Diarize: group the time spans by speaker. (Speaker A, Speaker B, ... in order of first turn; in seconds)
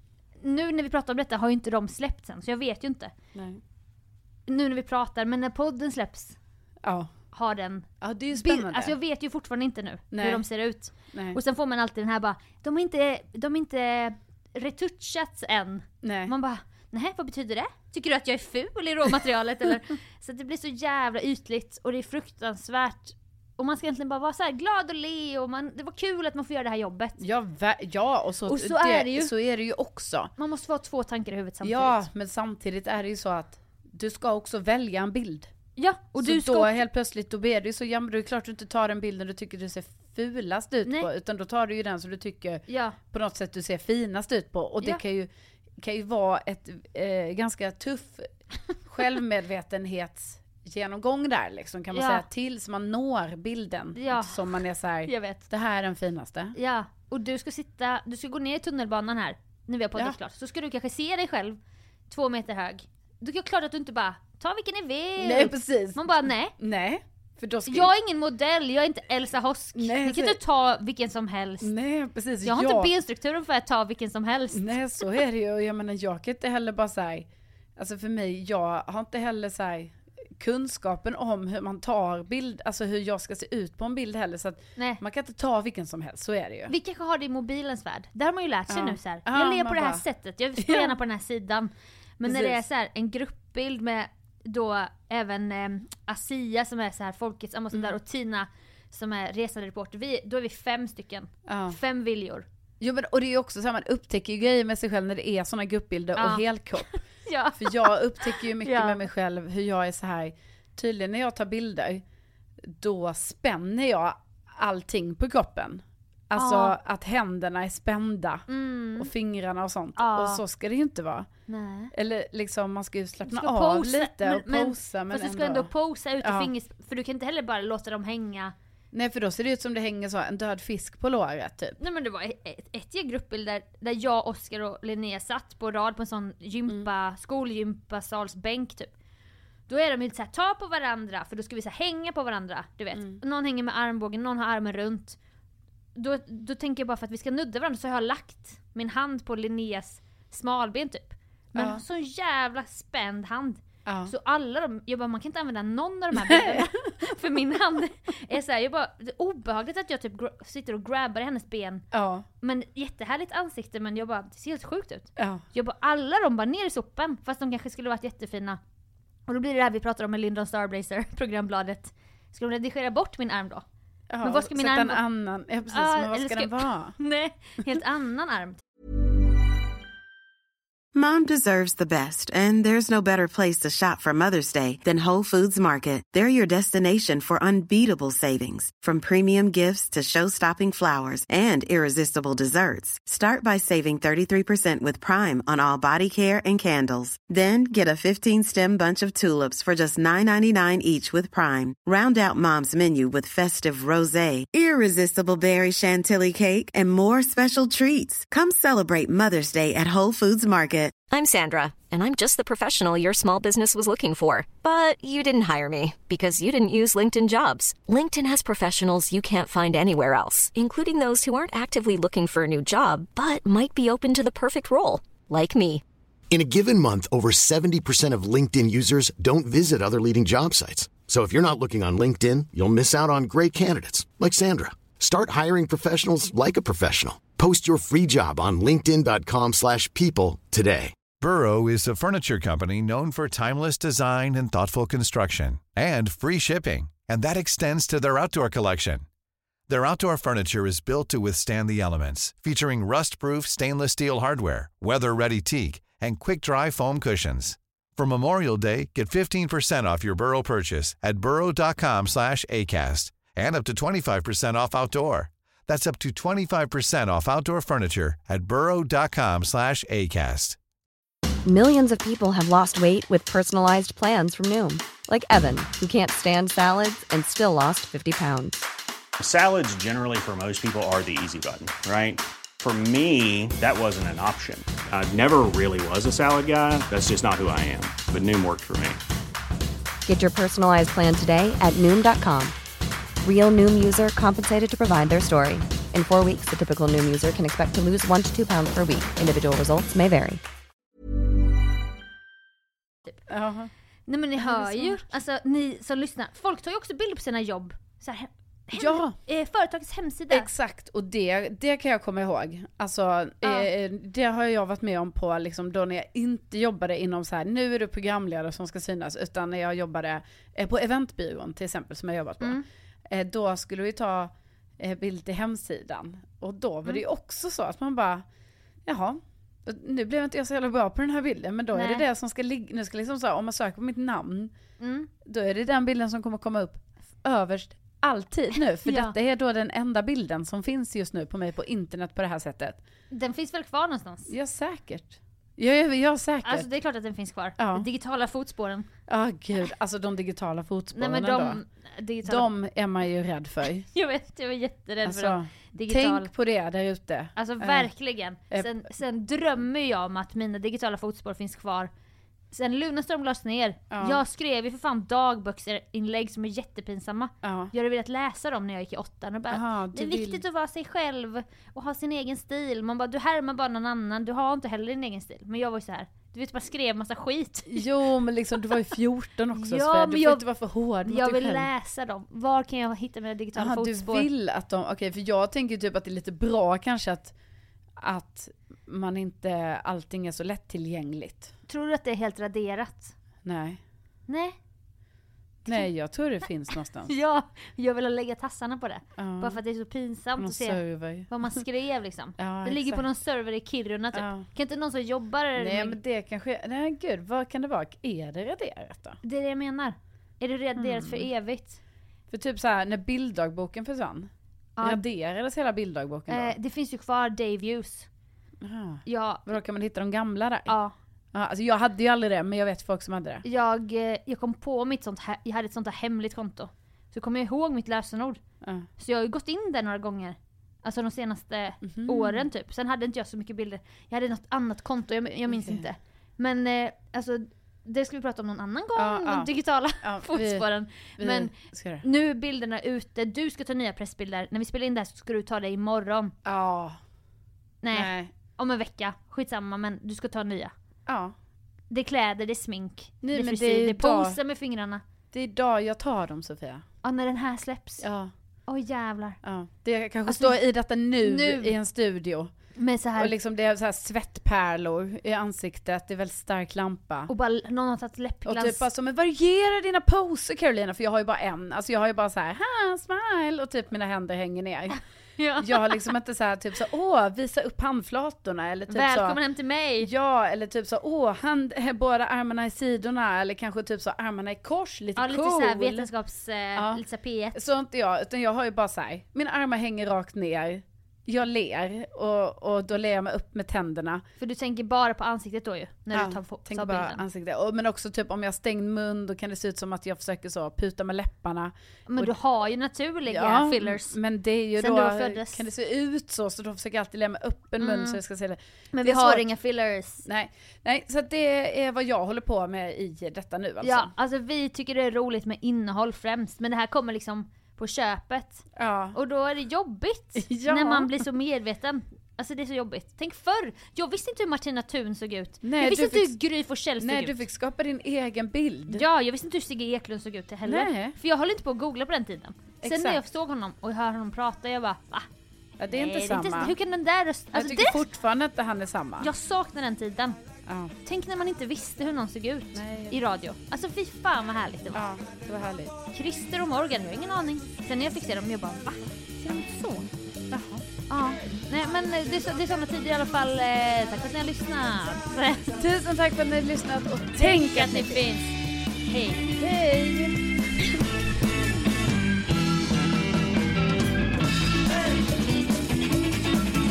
Speaker A: 0.4-3.1, 4.5-6.3, 7.3-27.2, 28.5-29.3, 30.4-32.1, 35.8-36.8, 40.8-41.1, 42.7-43.0, 51.9-52.2, 53.9-55.5, 56.5-66.5, 67.7-71.7, 72.4-75.2, 84.8-85.0, 86.7-102.5, 106.2-109.0, 116.3-116.8, 118.5-119.1, 120.0-120.4, 121.5-121.9, 123.2-128.5, 131.8-138.9, 139.7-145.2, 145.9-161.8, 162.4-168.6, 169.3-173.6, 174.2-175.0, 175.7-178.6, 304.1-310.5, 313.4-313.7, 331.7-332.1, 334.8-335.1, 338.8-339.1, 343.1-344.3, 346.4-348.9, 350.9-352.5, 353.8-356.3, 357.3-361.9, 362.5-377.8, 379.5-384.3, 391.7-393.1, 394.3-394.6, 396.8-406.0, 409.2-411.8, 414.8-415.0, 416.3-418.1, 419.0-419.5, 420.7-420.9, 423.4-428.4, 429.0-446.3, 447.8-450.7, 451.9-455.0, 457.0-458.1, 458.7-459.4, 460.2-460.6, 461.2-461.8, 462.7-463.3, 467.3-468.9, 475.4-476.1, 478.9-480.1, 485.1-487.6, 494.4-497.2, 502.1-504.2, 504.8-505.7, 507.8-508.2, 508.9-510.2, 513.8-527.4, 528.9-535.3, 535.9-538.0, 539.2-540.4, 541.0-545.1, 546.1-550.1, 551.1-555.8, 557.4-559.5
Speaker B: 3.3-3.6, 6.8-7.1, 8.0-9.0, 10.1-10.5, 11.1-11.4, 16.0-16.3, 27.2-30.3, 31.6-35.5, 36.2-48.3, 48.8-56.5, 65.2-67.9, 69.8-70.4, 71.6-72.9, 74.5-86.7, 88.7-90.0, 90.6-90.9, 92.2-92.6, 101.5-101.8, 102.8-107.0, 107.5-112.0, 112.7-121.3, 121.9-126.5, 128.9-131.8, 142.9-143.2, 151.6-151.8, 153.8-154.1, 156.2-156.7, 161.9-162.2, 165.2-165.4, 174.1-176.9, 303.3-303.7, 304.4-305.1, 308.7-309.1, 310.3-328.2, 328.9-334.5, 335.2-342.8, 344.3-346.7, 347.6-347.9, 349.1-351.6, 352.2-353.8, 355.0-357.9, 363.9-364.2, 367.4-367.7, 369.5-370.4, 377.7-381.7, 383.5-387.3, 388.0-391.5, 393.4-393.8, 395.6-397.1, 399.2-399.6, 400.4-401.5, 402.4-403.1, 404.1-404.5, 405.6-409.2, 410.8-411.3, 412.3-414.3, 414.8-416.6, 418.6-420.8, 421.3-423.4, 428.6-428.9, 431.8-432.4, 435.5-435.9, 438.9-440.7, 441.2-442.0, 446.4-447.0, 447.9-448.3, 451.1-451.3, 453.2-454.4, 455.3-456.8, 458.0-458.3, 459.4-462.5, 463.1-467.3, 468.4-475.0, 475.6-479.4, 480.0-486.1, 486.7-487.0, 487.5-494.2, 496.1-502.3, 503.3-509.5, 510.2-514.1, 518.8-519.2, 520.4-521.1, 525.6-526.3, 527.0-529.0, 530.6-531.2, 532.8-533.2, 535.8-536.8, 537.5-539.3, 540.6-540.9, 542.7-543.2, 544.9-545.9, 550.5-550.8, 555.8-558.2, 559.5-560.4
Speaker C: 180.9-210.9
Speaker D: 211.1-225.8
Speaker E: 226.3-240.9
Speaker F: 241.2-249.1, 249.7-270.6
Speaker G: 271.4-278.6, 290.1-292.5, 293.2-300.4
Speaker H: 279.2-289.0